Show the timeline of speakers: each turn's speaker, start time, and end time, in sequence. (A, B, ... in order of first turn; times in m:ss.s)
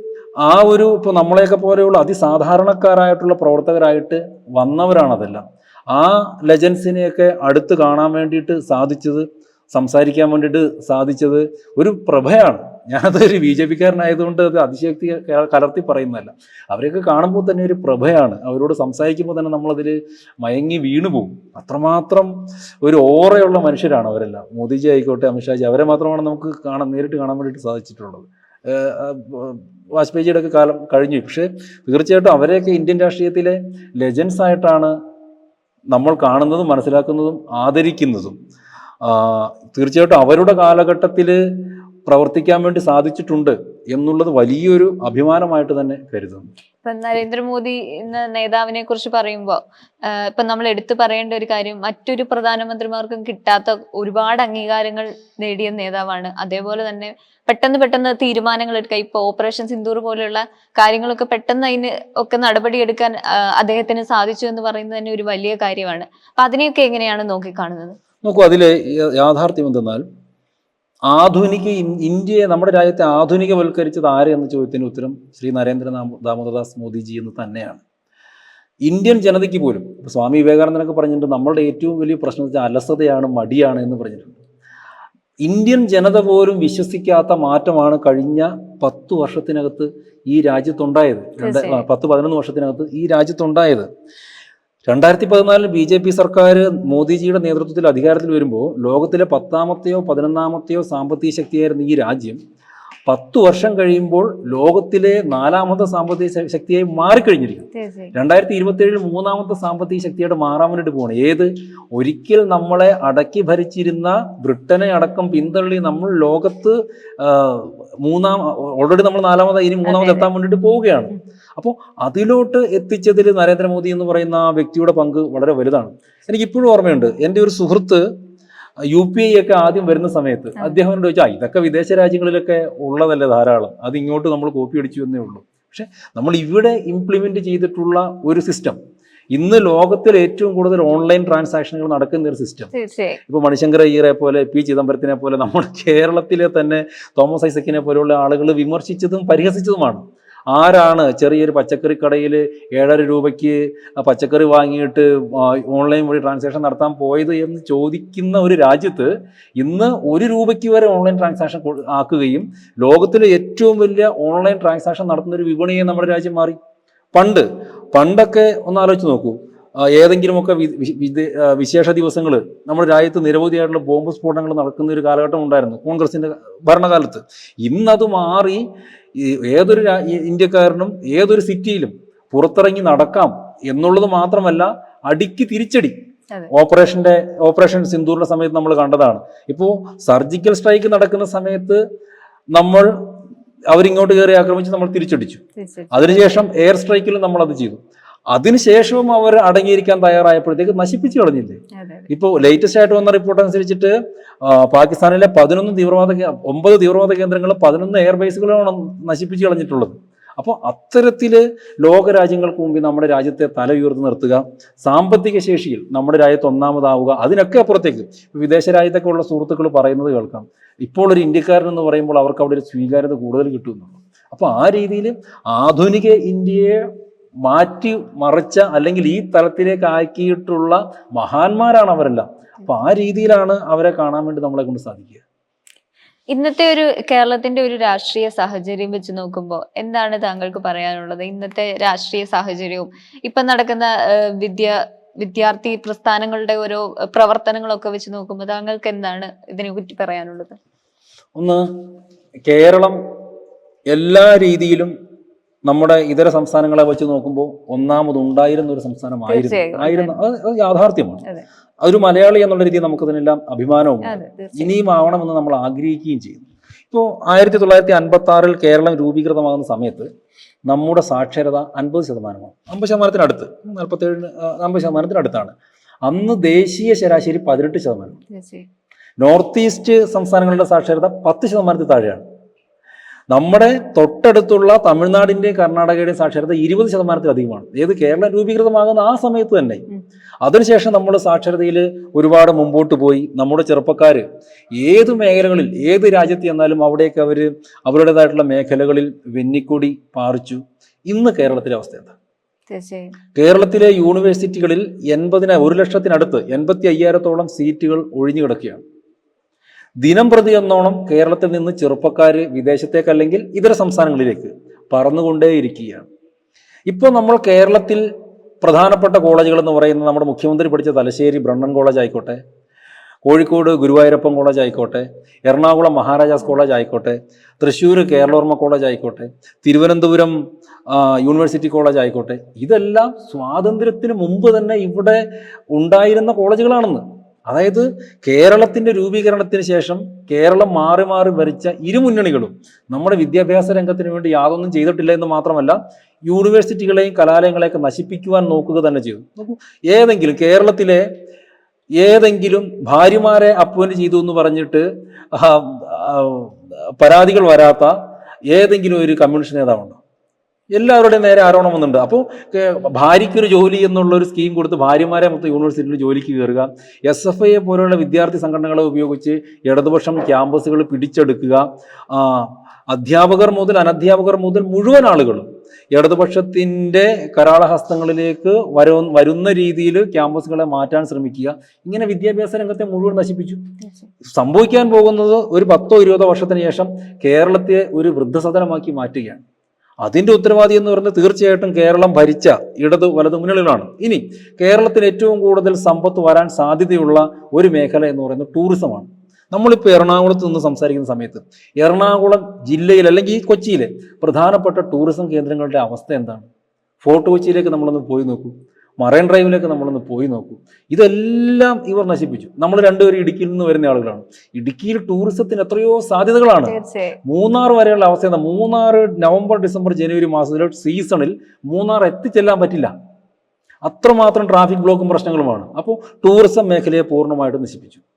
0:00.4-0:34.9 A
0:35.9-0:38.4 A
0:39.0-0:41.4 A
0:42.0-0:46.4 A
0:46.8-1:08.0 B
1:08.2-1:10.0 A
1:11.1-1:17.8 A
1:18.8-1:24.4 A
1:25.4-1:33.9 A
1:31.4-1:31.8 B
1:34.9-1:42.4 A
1:43.1-2:08.0 A
1:47.7-1:48.1 B
1:59.8-2:00.3 B
2:08.9-2:18.8 A
2:19.3-2:22.7 A
2:22.7-2:23.2 B
2:23.3-2:46.6 A
2:47.1-2:58.6 A
2:59.2-3:06.0 A
3:06.5-3:11.8 A
3:12.5-3:12.9 A
3:13.7-3:15.4 A
3:15.6-3:16.4 B
3:15.9-3:17.8 A
3:18.3-3:46.8 A
3:21.7-3:22.1 B
3:47.4-3:55.2 A
3:56.3-4:10.6 B
4:11.4-4:11.7 A
4:12.4-4:13.0 A
4:13.9-4:14.9 A
4:15.6-4:21.2 A
4:19.3-4:20.1 B
4:21.8-4:30.1 A
4:24.0-4:24.7 B
4:30.7-4:35.5 A
4:36.0-4:38.2 A
4:38.3-4:38.7 B
4:39.2-4:42.2 A
4:43.3-4:49.8 A
4:50.4-5:02.1 A
5:02.7-5:03.1 B
5:03.3-5:08.8 A
5:10.0-5:16.1 A
5:16.9-5:18.0 A
5:18.6-5:22.4 A
5:23.2-5:35.2 A
5:35.7-5:51.0 A
5:52.0-5:57.9 A
5:58.5-6:00.0 A
6:00.7-6:23.6 A
6:23.8-6:24.0 B
6:24.2-6:29.4 A
6:30.0-6:46.5 A
6:47.0-6:56.7 A
6:56.6-6:57.2 B
6:57.2-7:02.9 A
7:03.8-7:08.0 A